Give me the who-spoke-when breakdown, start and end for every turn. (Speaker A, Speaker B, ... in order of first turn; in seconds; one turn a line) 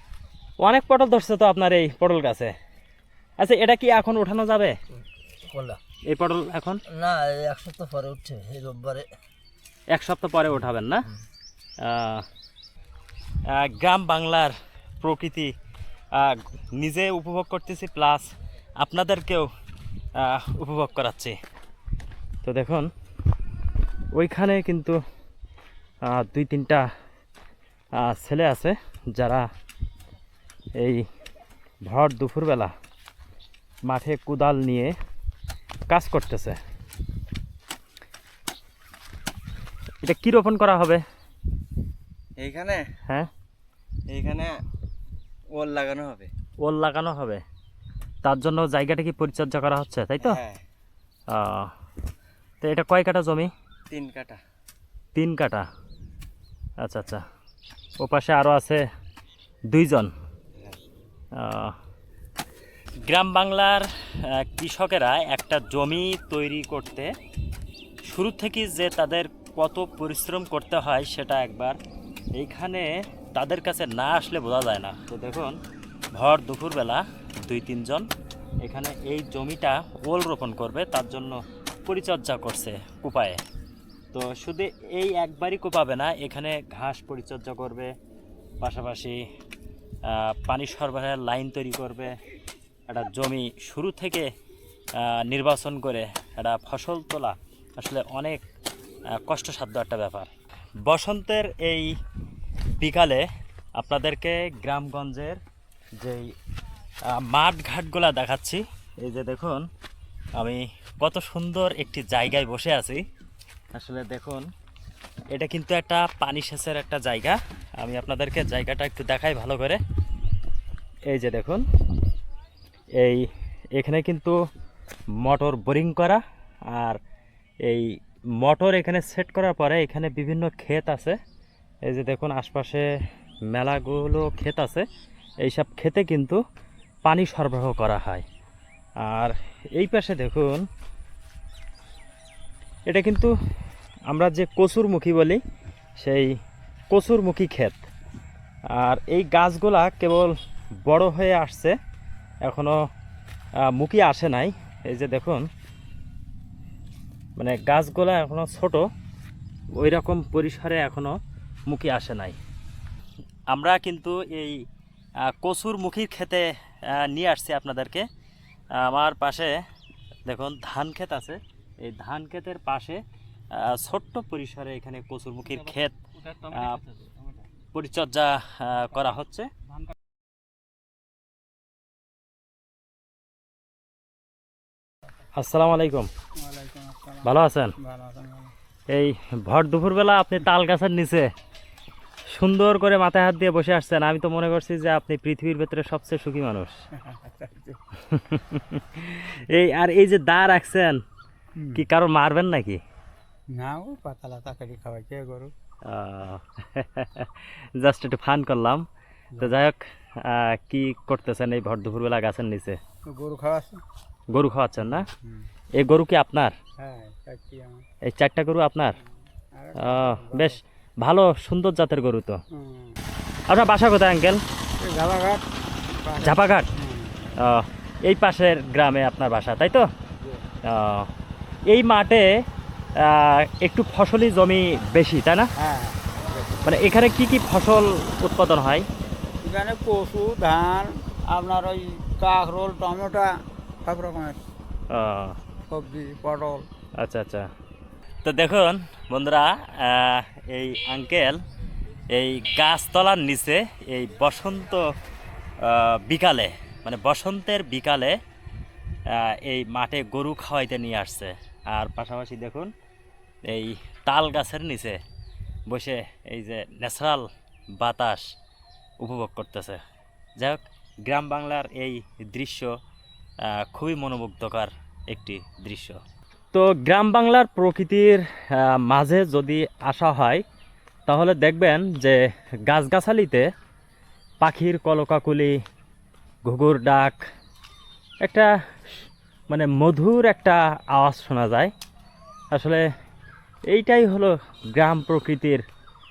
Speaker A: 0.6-2.5
Speaker A: 3.4-4.7
Speaker B: 5.4-5.8
Speaker A: 6.1-6.8
Speaker B: 6.9-9.1
Speaker A: 9.9-11.1
Speaker A: 11.8-12.2
Speaker A: 13.5-15.5
Speaker A: 16.1-18.3
Speaker A: 18.8-19.5
Speaker A: 20.1-21.4
Speaker A: 22.4-22.9
Speaker A: 24.1-25.0
Speaker A: 26.0-26.9
Speaker A: 28.0-29.5
Speaker A: 30.8-31.1
Speaker A: 31.9-32.7
Speaker A: 33.9-34.9
Speaker A: 35.9-36.6
Speaker A: 40.0-41.0
Speaker C: 42.4-42.9
Speaker C: 44.1-44.6
Speaker C: 45.5-46.3
Speaker A: 46.6-47.4
Speaker A: 48.2-50.4
Speaker C: 50.2-50.6
Speaker A: 51.3-51.7
Speaker A: 52.6-53.5
Speaker C: 53.9-54.4
Speaker A: 55.1-55.7
Speaker A: 56.8-57.2
Speaker A: 58.0-58.8
Speaker A: 59.7-60.1
Speaker A: 61.3-61.8
Speaker A: 63.0-67.1
Speaker A: 68.1-71.8
Speaker A: 72.3-75.5
Speaker A: 76.1-78.1
Speaker A: 78.6-83.4
Speaker A: 84.1-87.9
Speaker A: 88.6-89.2
Speaker A: 90.0-92.2
Speaker A: 92.9-94.3
Speaker A: 94.9-98.4
Speaker A: 99.1-100.3
Speaker A: 100.8-101.9
Speaker A: 102.8-105.4
Speaker A: 106.0-106.3
Speaker A: 107.1-109.7
Speaker A: 110.3-113.0
Speaker A: 113.7-114.5
Speaker A: 115.3-119.8
Speaker A: 121.1-121.6
Speaker A: 123.0-124.4
Speaker A: 125.2-127.0
Speaker A: 128.4-131.2
Speaker A: 131.8-132.9
Speaker A: 133.5-134.8
Speaker A: 135.4-136.4
Speaker A: 137.0-138.2
Speaker A: 139.1-140.7
Speaker A: 142.9-143.3
Speaker A: 144.1-145.4
Speaker A: 146.0-146.3
Speaker A: 146.9-147.8
Speaker A: 148.8-150.3
Speaker A: 150.8-151.8
Speaker A: 152.4-152.8
Speaker A: 153.7-155.4
Speaker A: 157.3-158.9
Speaker A: 159.8-161.2
Speaker A: 161.7-162.4
Speaker A: 163.5-164.6
Speaker A: 165.2-168.1
Speaker A: 168.7-169.6
Speaker A: 170.2-177.1
Speaker A: 177.7-179.5
Speaker A: 185.3-186.1
Speaker D: 186.4-188.5
Speaker A: 187.2-187.7
Speaker A: 188.9-191.3
Speaker A: 192.3-196.8
Speaker D: 197.0-197.8
Speaker A: 198.1-201.0
Speaker D: 201.6-201.8
Speaker A: 201.7-202.8
Speaker D: 203.5-205.5
Speaker A: 205.8-208.8
Speaker A: 209.4-212.8
Speaker D: 213.1-213.8
Speaker A: 214.3-215.1
Speaker D: 214.8-215.5
Speaker A: 215.8-216.5
Speaker D: 216.8-217.8
Speaker A: 218.0-219.0
Speaker D: 219.6-220.6
Speaker A: 219.8-222.4
Speaker D: 222.5-223.0
Speaker A: 223.5-224.4
Speaker D: 224.8-227.4
Speaker A: 226.2-226.7
Speaker A: 227.4-229.9
Speaker A: 230.6-231.1
Speaker A: 231.7-232.3
Speaker A: 233.0-235.5
Speaker D: 235.6-236.6
Speaker A: 236.6-238.8
Speaker D: 239.4-243.3
Speaker D: 243.8-244.4
Speaker A: 244.9-245.4
Speaker D: 245.7-246.7
Speaker A: 247.0-247.5
Speaker A: 248.2-251.4
Speaker A: 252.1-254.8
Speaker A: 255.6-258.2
Speaker A: 259.1-262.7
Speaker A: 263.4-265.0
Speaker A: 265.7-268.3
Speaker A: 269.0-269.8
Speaker A: 270.4-272.7
Speaker A: 273.4-276.0
Speaker A: 276.5-280.4
Speaker A: 281.1-283.5
Speaker A: 284.4-285.5
Speaker A: 286.4-287.2
Speaker A: 289.5-291.7
Speaker A: 292.5-292.8
Speaker A: 293.7-295.6